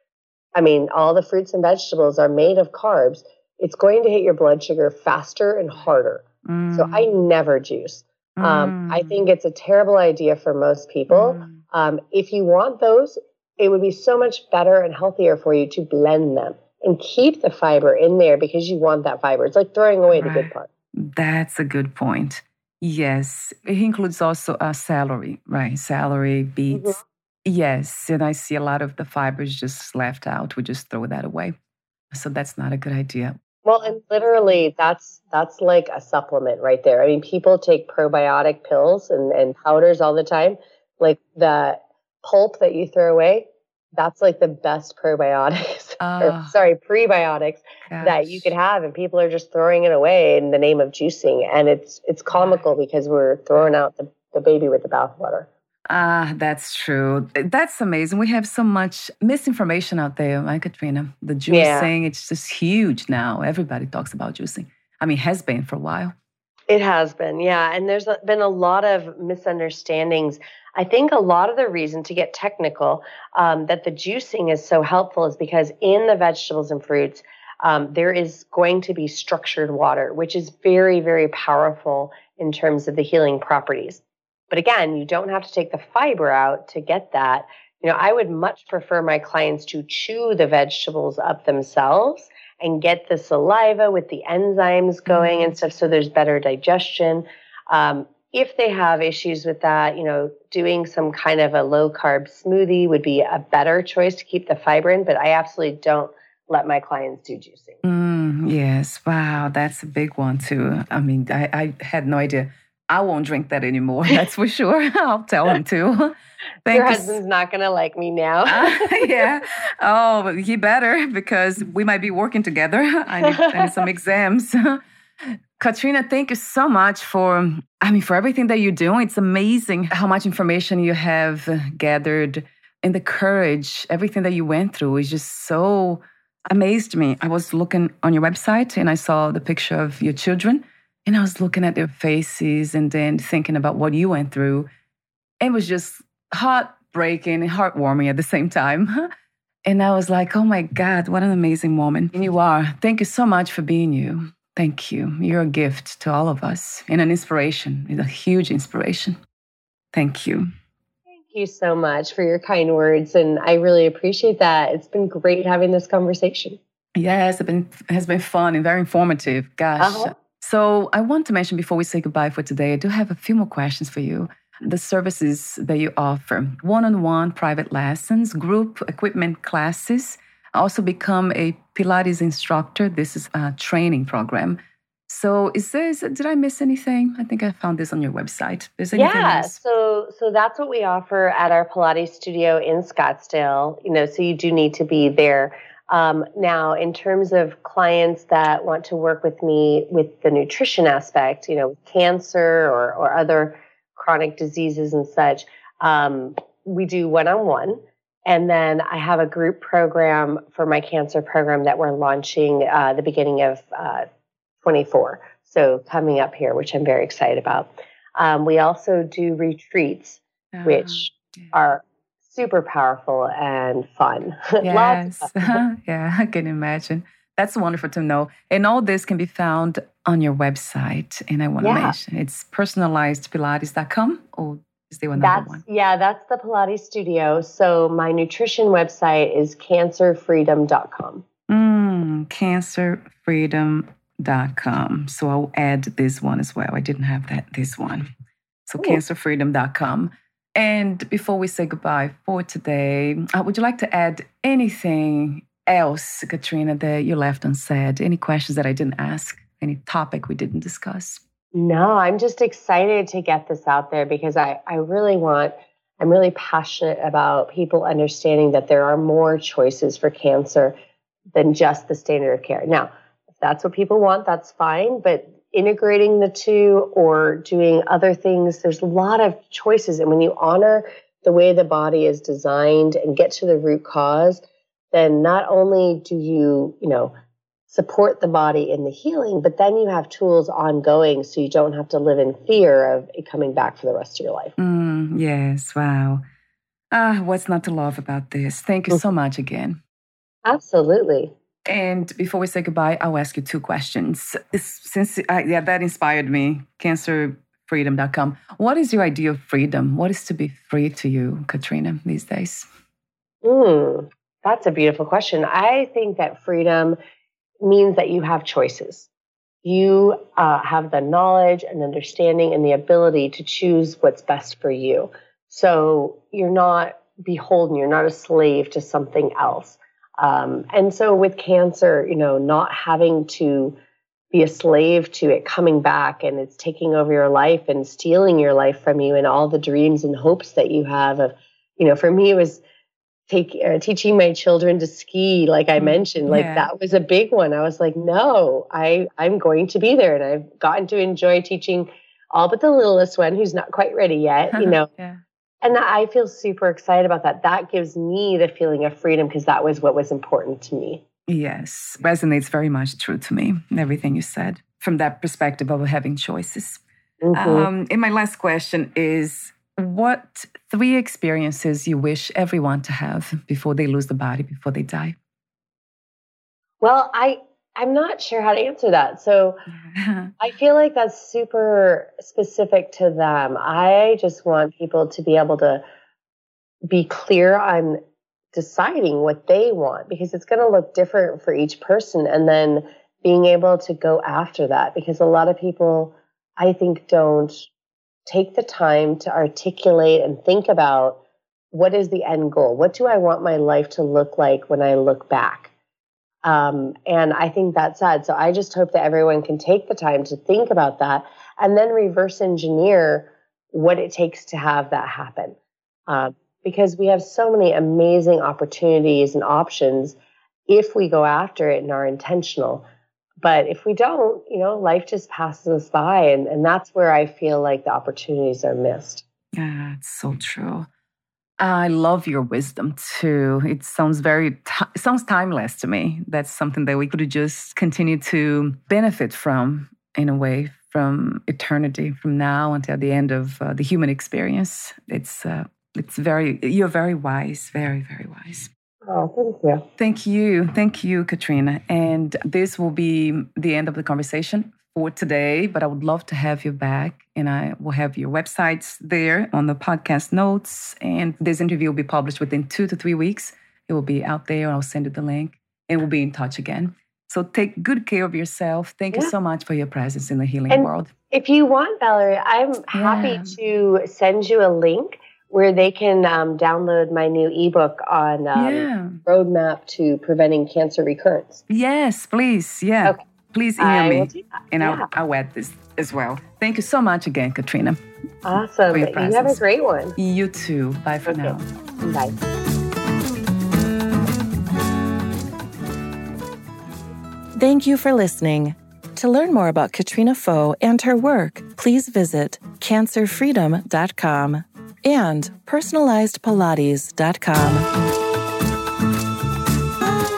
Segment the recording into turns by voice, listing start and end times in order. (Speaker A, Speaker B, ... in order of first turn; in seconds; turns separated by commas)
Speaker A: 0.6-20.7, Speaker B: 6.5-7.1, Speaker B: 8.4-9.2, Speaker B: 11.1-11.6, Speaker B: 20.1-31.5, Speaker A: 26.7-27.0, Speaker B: 32.1-33.4, Speaker A: 33.6-55.5, Speaker B: 46.0-46.5, Speaker B: 47.9-48.5, Speaker B: 55.9-66.1, Speaker A: 61.5-61.9, Speaker A: 66.7-107.8, Speaker B: 95.1-95.4, Speaker B: 107.8-116.1, Speaker B: 116.7-117.2, Speaker A: 116.7-119.3, Speaker B: 118.5-144.7, Speaker A: 123.3-123.5, Speaker B: 145.4-149.1, Speaker B: 149.7-159.2, Speaker B: 159.9-160.5, Speaker A: 161.1-166.6, Speaker B: 167.0-189.6, Speaker A: 169.8-170.1, Speaker A: 189.0-214.1, Speaker A: 214.6-225.6, Speaker B: 220.5-221.5, Speaker B: 224.6-235.6, Speaker A: 231.6-232.0, Speaker A: 235.2-241.2, Speaker B: 241.5-248.1, Speaker B: 248.7-261.2, Speaker A: 261.6-270.8, Speaker A: 271.3-287.1, Speaker A: 287.7-294.5, Speaker B: 294.6-296.2, Speaker B: 296.9-299.8, Speaker A: 300.4-301.3, Speaker B: 301.7-312.7, Speaker A: 313.4-317.0, Speaker A: 317.6-319.1, Speaker A: 319.6-333.8, Speaker A: 334.3-342.6, Speaker A: 343.3-354.9, Speaker B: 345.8-346.7, Speaker B: 354.5-355.2, Speaker A: 355.6-361.0, Speaker B: 361.3-366.8, Speaker A: 367.2-367.7, Speaker B: 367.3-375.1, Speaker A: 376.8-379.6, Speaker B: 379.8-380.4, Speaker A: 380.4-385.8, Speaker A: 386.9-388.0, Speaker A: 388.5-397.7, Speaker A: 398.3-401.2, Speaker A: 401.7-405.7, Speaker A: 406.4-415.6, Speaker A: 416.1-422.8, Speaker A: 423.4-429.2, Speaker B: 429.6-430.9, Speaker B: 431.6-448.7, Speaker A: 449.1-449.8, Speaker B: 450.0-471.1, Speaker A: 470.7-481.6, Speaker B: 472.9-473.6, Speaker B: 478.6-479.2, Speaker B: 481.7-488.0, Speaker A: 483.8-485.1, Speaker A: 488.4-490.2, Speaker B: 488.9-489.6, Speaker B: 490.2-491.7, Speaker A: 491.3-492.4, Speaker C: 497.6-507.9